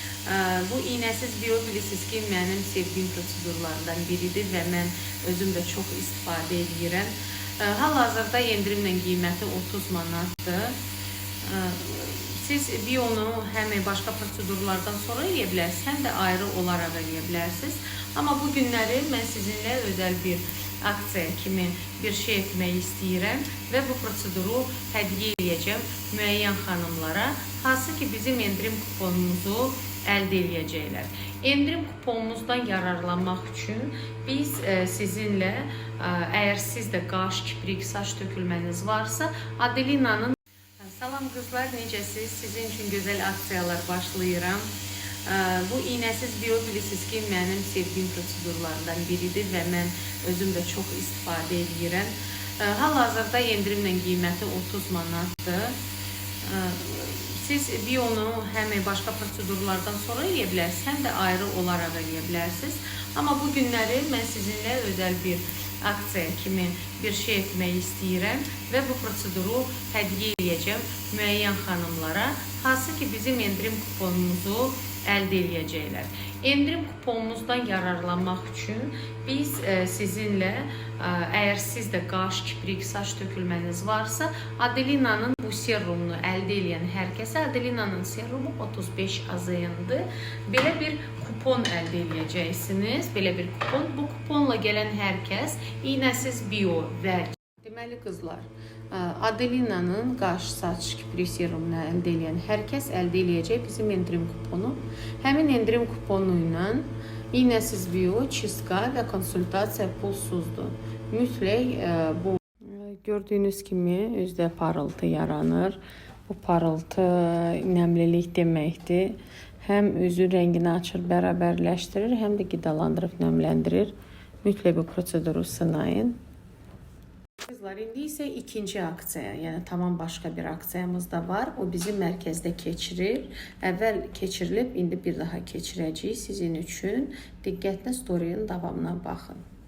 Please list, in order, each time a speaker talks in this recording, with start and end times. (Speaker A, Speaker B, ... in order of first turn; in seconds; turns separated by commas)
Speaker A: 0.2-10.8, Speaker A: 11.4-44.7, Speaker A: 45.2-55.8, Speaker A: 56.4-126.2, Speaker A: 127.5-139.4